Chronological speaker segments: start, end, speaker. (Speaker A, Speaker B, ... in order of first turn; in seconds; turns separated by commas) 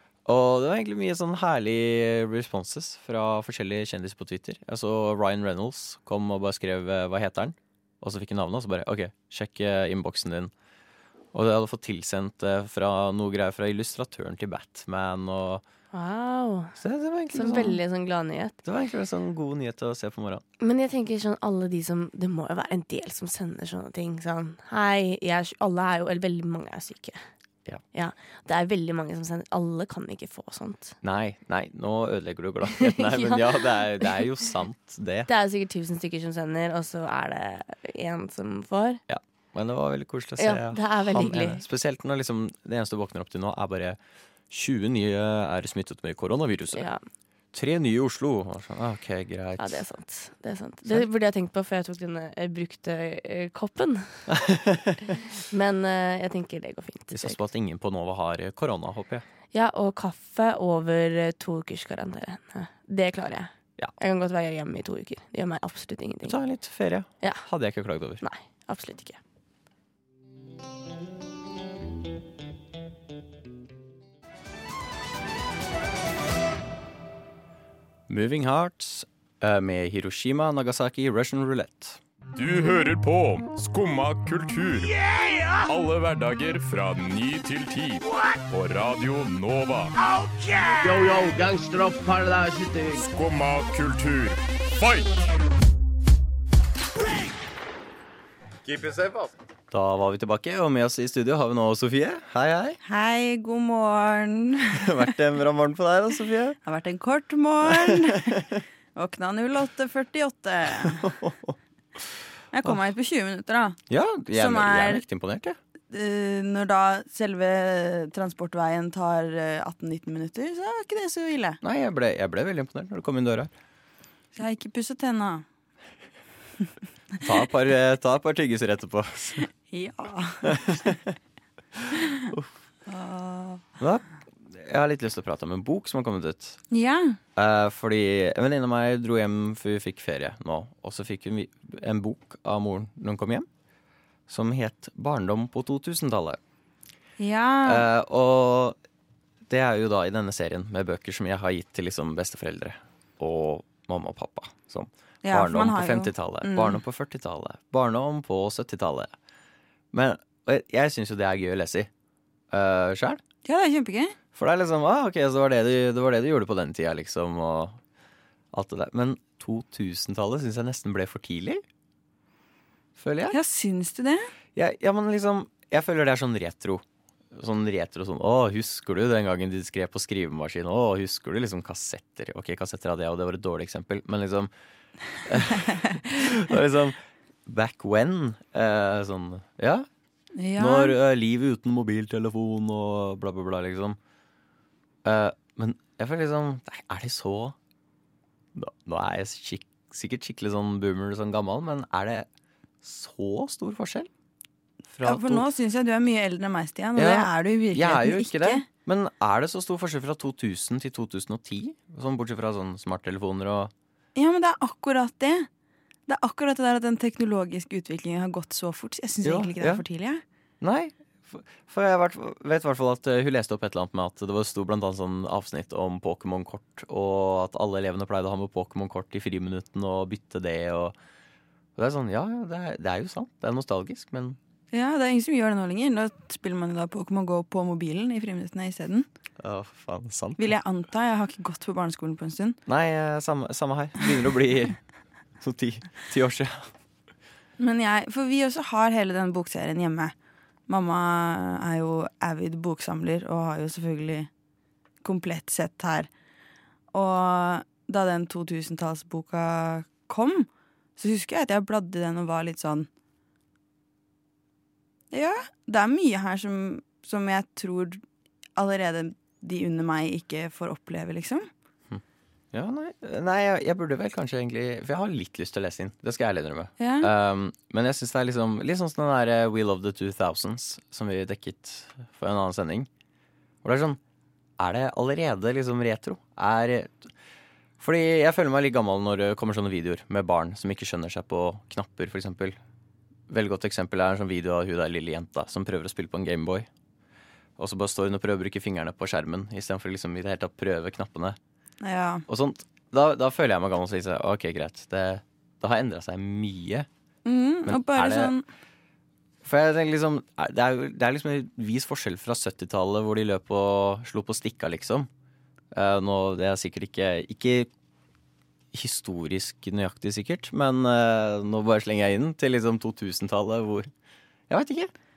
Speaker A: 0.2-10.5, Speaker A: 11.3-15.6, Speaker B: 15.9-16.8, Speaker A: 16.8-17.8, Speaker B: 17.3-18.6, Speaker A: 18.6-20.4, Speaker B: 20.6-27.3, Speaker B: 27.9-31.0, Speaker A: 31.0-35.3, Speaker B: 32.8-34.2, Speaker B: 35.3-39.0, Speaker A: 39.1-44.0, Speaker B: 40.4-41.6, Speaker A: 44.5-46.9, Speaker B: 46.7-47.0, Speaker A: 47.5-49.8, Speaker B: 49.6-54.4, Speaker A: 54.3-55.1, Speaker B: 55.1-57.4, Speaker A: 57.1-59.2, Speaker B: 59.5-66.4, Speaker A: 66.2-68.2, Speaker B: 68.2-69.2, Speaker A: 78.1-82.0, Speaker C: 82.3-85.0, Speaker C: 85.7-90.0, Speaker D: 90.8-93.0, Speaker C: 93.0-95.1, Speaker C: 98.7-99.3, Speaker A: 99.7-102.8, Speaker E: 102.8-104.9, Speaker A: 104.8-106.6, Speaker E: 106.6-108.4, Speaker A: 107.7-107.9, Speaker E: 109.0-111.1, Speaker A: 110.8-111.6, Speaker E: 112.5-113.8, Speaker A: 113.9-115.6, Speaker E: 114.3-115.0, Speaker E: 115.9-121.6, Speaker A: 121.6-123.5, Speaker E: 124.3-125.5, Speaker A: 127.2-129.5, Speaker E: 129.7-130.8, Speaker A: 130.4-131.2, Speaker A: 131.8-132.5, Speaker E: 132.9-133.6, Speaker A: 133.8-136.6, Speaker E: 136.7-137.2, Speaker A: 137.4-143.5, Speaker A: 144.3-146.4, Speaker E: 147.2-147.9, Speaker A: 147.7-148.8, Speaker A: 149.5-159.1, Speaker E: 155.2-156.8, Speaker A: 159.9-161.9, Speaker A: 162.5-163.2, Speaker E: 163.4-164.2, Speaker A: 164.3-167.8, Speaker A: 168.5-171.6, Speaker A: 173.0-173.4, Speaker E: 173.3-174.3, Speaker A: 174.6-184.5, Speaker A: 185.2-189.9, Speaker E: 190.4-190.9, Speaker A: 190.6-194.0, Speaker A: 195.0-197.6, Speaker A: 198.5-202.3, Speaker A: 202.8-204.1, Speaker A: 204.9-205.5, Speaker E: 205.0-208.7, Speaker A: 207.0-213.7, Speaker E: 214.2-215.5, Speaker E: 216.1-220.2, Speaker A: 219.2-219.8, Speaker A: 220.6-230.9, Speaker A: 231.8-234.4, Speaker E: 234.7-239.1, Speaker A: 239.4-240.5, Speaker E: 240.4-242.6, Speaker A: 242.7-244.8, Speaker A: 245.4-246.7, Speaker E: 247.6-250.2, Speaker E: 250.7-254.3, Speaker E: 255.0-256.1, Speaker E: 256.9-262.9, Speaker E: 265.1-268.0, Speaker E: 268.6-271.5, Speaker A: 272.5-282.9, Speaker E: 276.8-277.1, Speaker A: 283.6-284.0, Speaker A: 284.6-287.1, Speaker A: 287.8-292.6, Speaker A: 293.3-296.7, Speaker A: 297.6-301.4, Speaker E: 301.8-302.2, Speaker A: 302.3-306.9, Speaker E: 307.3-308.4, Speaker A: 307.7-308.4, Speaker A: 309.4-315.1, Speaker A: 315.7-317.7, Speaker A: 318.7-323.9, Speaker A: 324.5-324.9